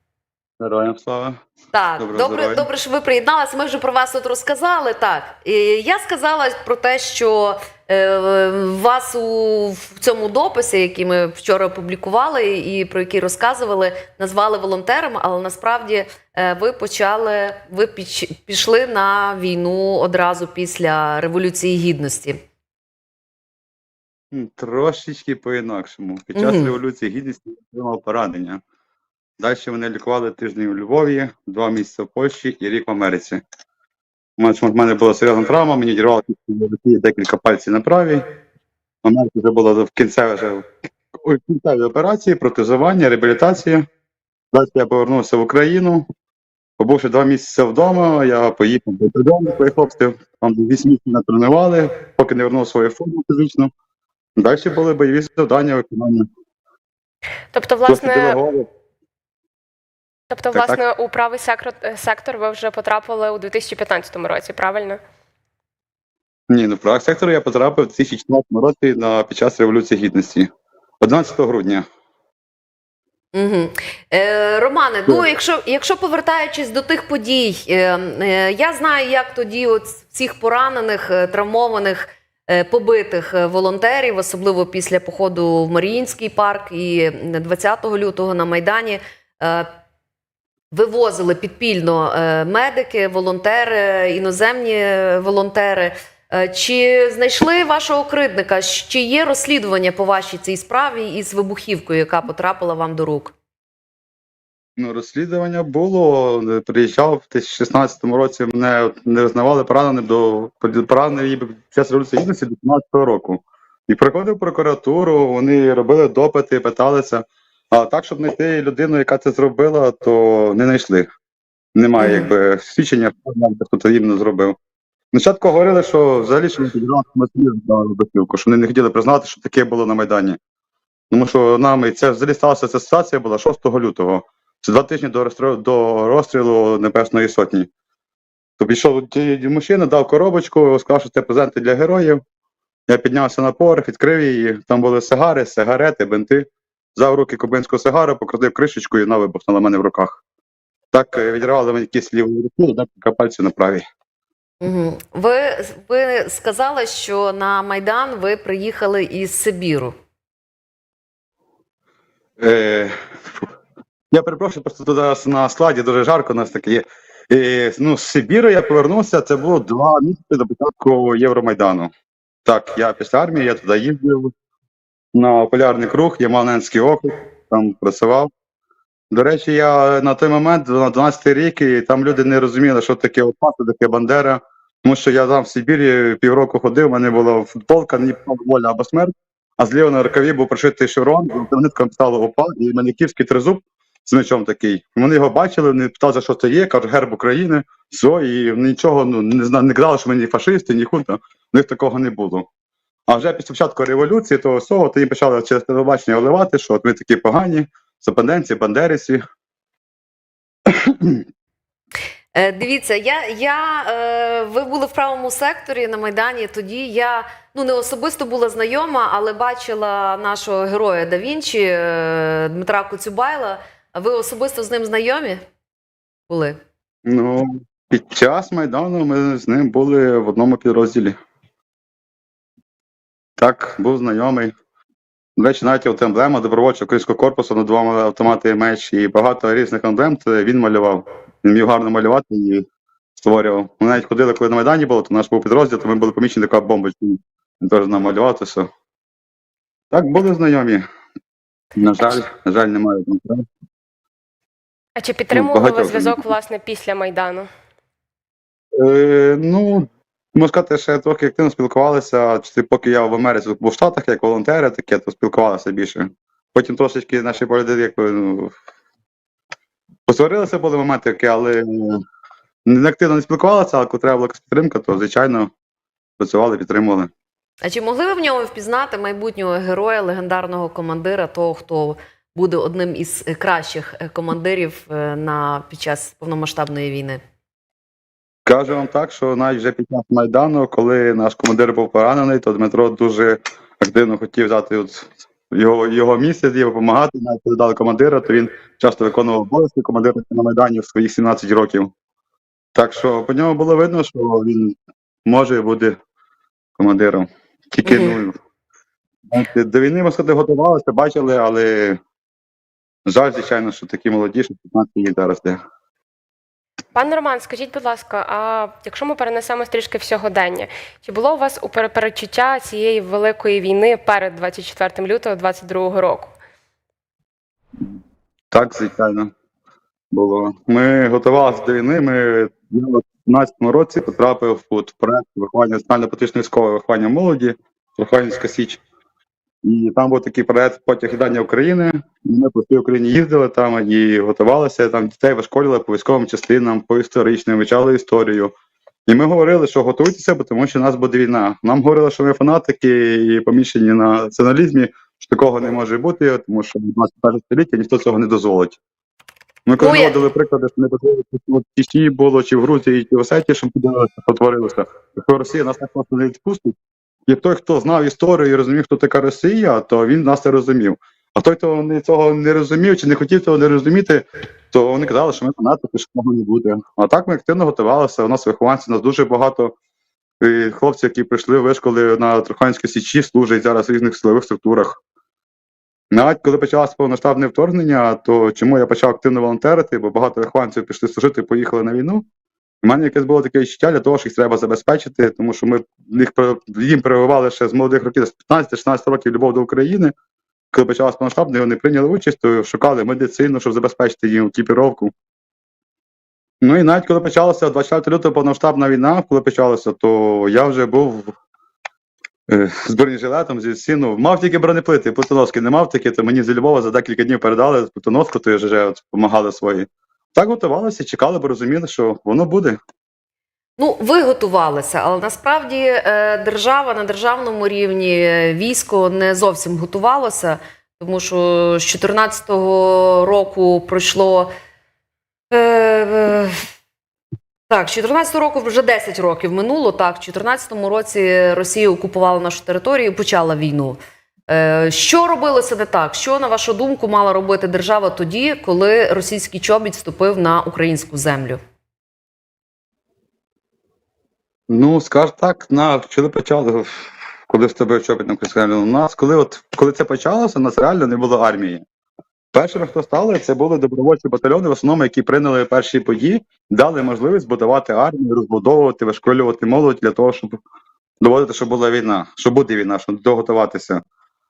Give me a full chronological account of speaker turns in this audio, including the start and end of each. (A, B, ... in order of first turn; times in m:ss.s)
0:00.6-0:01.4 A
0:01.7-0:22.4 B
0:02.0-0:02.7 A
0:24.3-0:28.6 A
0:26.3-0:26.7 B
0:29.4-0:33.4 A
0:34.4-0:38.2 A
0:39.0-0:40.6 A
0:41.2-0:43.8 A
0:44.5-0:46.0 A
0:46.8-0:53.7 A
0:54.4-0:56.2 A
0:57.5-0:58.4 C
0:57.9-0:58.7 A
1:00.3-1:05.0 C
1:00.5-1:00.8 A
1:06.5-1:10.5 A
1:11.0-1:11.8 A
1:13.3-1:29.7 B
1:30.7-1:43.3 B
1:44.8-2:01.1 A
2:01.7-2:04.6 A
2:02.0-2:02.3 B
2:05.1-2:10.4 A
2:11.1-2:17.7 A
2:18.6-2:22.2 A
2:22.9-2:30.2 A
2:30.9-2:33.8 A
2:34.6-2:39.9 B
2:42.4-2:43.5 A
2:44.1-2:51.9 A
2:52.4-2:54.3 A
2:55.1-2:58.3 A
2:59.1-3:22.5 A
3:23.1-3:29.2 A
3:30.7-3:31.2 A
3:32.3-3:45.4 B
3:46.3-3:46.6 B
3:47.0-3:51.1 A
3:53.4-3:54.5 A
3:55.4-4:02.6 A
4:03.2-4:08.7 A
4:09.9-4:10.8 A
4:11.8-4:13.4 A
4:15.0-4:17.5 C
4:15.3-4:16.2 A
4:18.8-4:28.5 A
4:30.1-4:32.0 A
4:32.6-4:35.5 A
4:36.2-4:37.1 A
4:37.6-4:47.2 B
4:48.4-5:01.9 A
5:02.7-5:04.7 A
5:05.2-5:05.9 A
5:06.8-5:08.4 A
5:07.8-5:08.2 B
5:09.3-5:12.0 A
5:13.0-5:15.6 A
5:16.9-5:26.3 C
5:28.5-5:29.3 A
5:30.1-5:38.8 A
5:39.6-5:48.5 A
5:49.1-5:58.8 A
5:59.6-6:06.7 A
5:59.8-6:00.2 B
6:07.3-6:19.7 A
6:20.4-6:25.0 A
6:26.1-6:32.2 A
6:32.8-6:40.1 A
6:40.7-6:45.1 A
6:46.6-6:51.3 A
6:52.5-7:02.8 A
7:03.8-7:14.5 B
7:15.5-7:16.6 B
7:17.7-7:31.6 B
7:34.7-7:41.8 A
7:42.5-7:50.6 A
7:51.2-7:54.0 A